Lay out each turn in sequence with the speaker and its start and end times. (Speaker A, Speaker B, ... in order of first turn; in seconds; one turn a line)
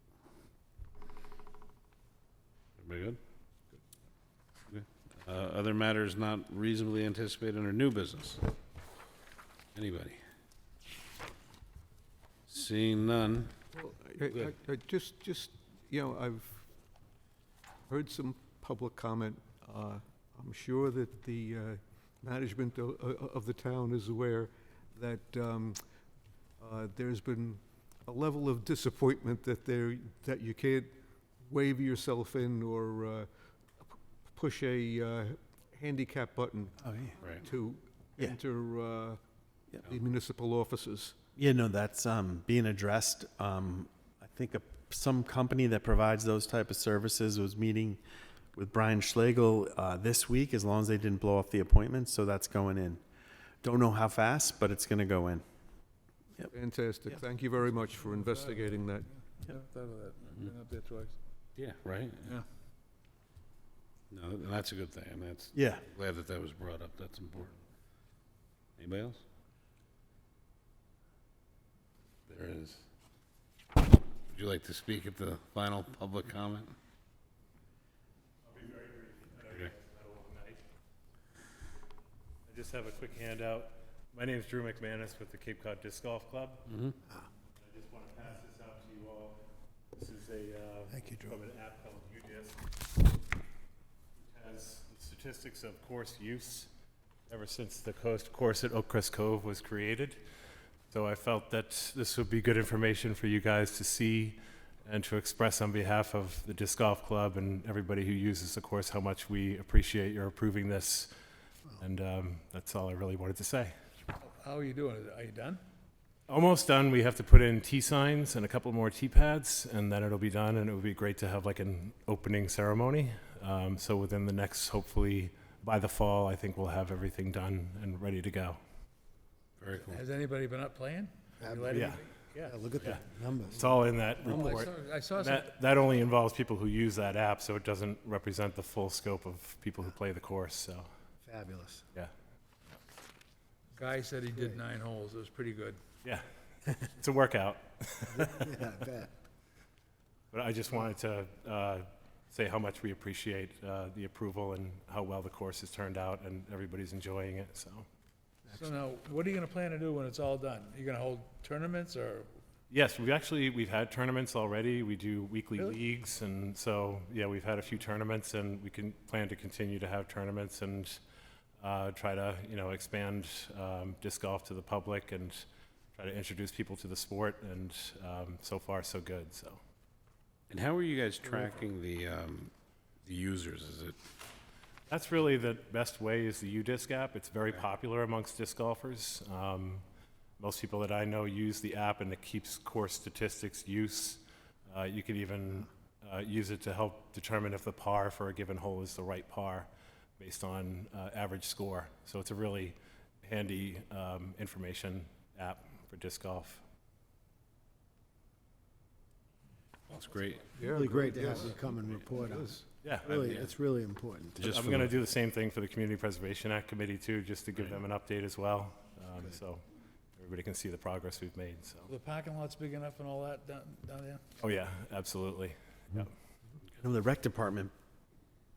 Speaker A: 2.8-3.2
Speaker A: 4.7-8.4
Speaker A: 9.8-10.2
Speaker A: 12.5-13.5
Speaker B: 13.7-16.7
Speaker B: 17.9-25.8
Speaker B: 26.6-36.9
Speaker C: 36.8-37.2
Speaker B: 37.4-39.2
Speaker B: 39.8-41.1
Speaker C: 41.4-48.0
Speaker C: 48.5-53.0
Speaker C: 53.6-55.4
Speaker B: 56.5-59.1
Speaker D: 59.4-61.2
Speaker A: 61.6-62.4
Speaker A: 64.1-67.5
Speaker C: 65.5-65.8
Speaker A: 68.8-69.2
Speaker A: 72.3-72.8
Speaker A: 74.3-76.7
Speaker E: 78.4-80.6
Speaker E: 82.5-86.8
Speaker E: 87.6-89.4
Speaker E: 89.9-92.6
Speaker F: 90.9-91.4
Speaker E: 94.2-96.7
Speaker E: 97.3-100.2
Speaker E: 100.9-111.1
Speaker E: 111.8-113.7
Speaker D: 114.2-115.6
Speaker E: 116.3-128.6
Speaker A: 129.6-130.0
Speaker D: 129.8-132.5
Speaker F: 131.4-133.8
Speaker E: 131.7-140.9
Speaker D: 134.2-135.5
Speaker F: 141.2-141.8
Speaker D: 143.8-145.8
Speaker E: 146.0-148.5
Speaker F: 148.1-149.1
Speaker E: 150.3-157.8
Speaker D: 158.5-162.3
Speaker E: 162.7-171.0
Speaker E: 171.6-179.6
Speaker A: 180.5-182.5
Speaker A: 183.0-184.0
Speaker E: 184.9-189.8
Speaker E: 190.4-206.6
Speaker A: 209.9-210.5
Speaker B: 210.5-212.6
Speaker F: 210.7-214.4
Speaker E: 212.8-213.2
Speaker A: 213.1-213.5
Speaker A: 214.3-214.9
Speaker E: 214.4-219.6
Speaker E: 220.2-221.9
Speaker D: 221.9-224.2
Speaker E: 224.4-226.1
Speaker C: 226.8-227.7